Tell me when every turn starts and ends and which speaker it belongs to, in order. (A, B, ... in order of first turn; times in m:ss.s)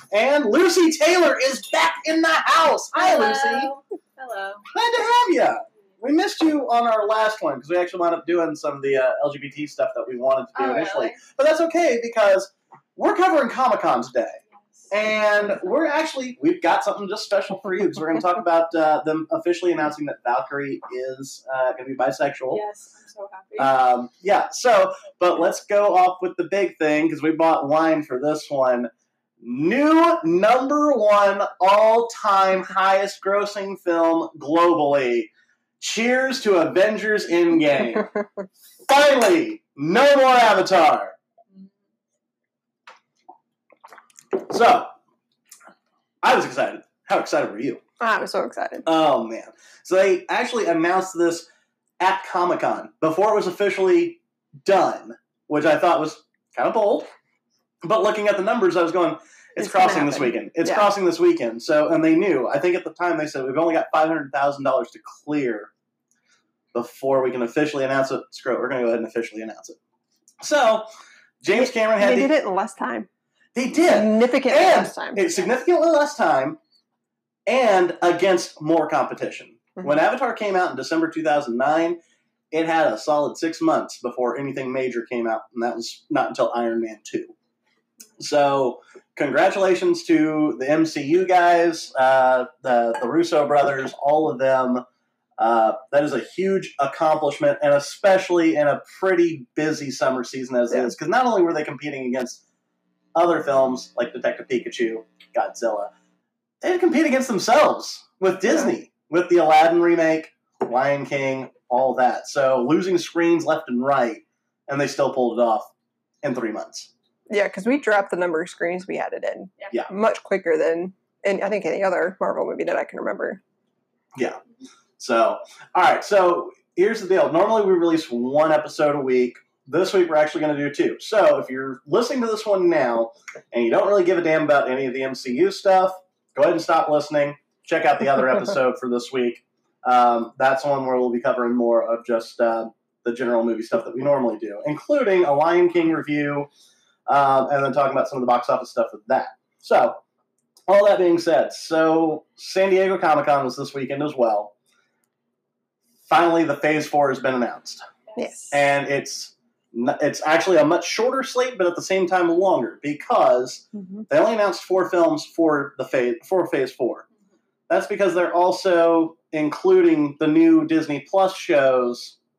0:00.1-0:03.7 A
0:02.9-0:04.7 B
0:04.7-0:14.4 A
0:10.6-0:11.2 B
0:14.9-0:22.6 A
0:22.5-0:23.7 B
0:23.6-0:28.9 A
0:29.4-0:38.1 A
0:38.8-0:41.1 A
0:44.4-0:44.9 A
0:46.2-0:47.8 A
0:48.0-0:48.9 C
0:48.9-0:51.5 A
0:52.0-0:57.1 A
0:57.8-1:05.7 A
0:59.6-1:00.9 C
1:06.7-1:09.8 A
1:10.4-1:10.9 A
1:11.4-1:12.3 A
1:11.6-1:13.1 C
1:13.6-1:16.6 A
1:13.9-1:15.5 C
1:17.5-1:22.0 A
1:22.5-1:27.3 A
1:28.2-1:34.8 A
1:35.4-1:42.4 A
1:43.2-1:45.9 A
1:46.6-1:55.7 A
1:56.2-1:56.9 A
1:57.3-2:03.4 C
2:05.0-2:26.5 A
2:27.1-2:30.0 A
2:30.7-2:34.5 A
2:36.1-2:37.8 A
2:38.2-2:38.7 C
2:38.5-2:47.1 A
2:47.7-2:52.2 A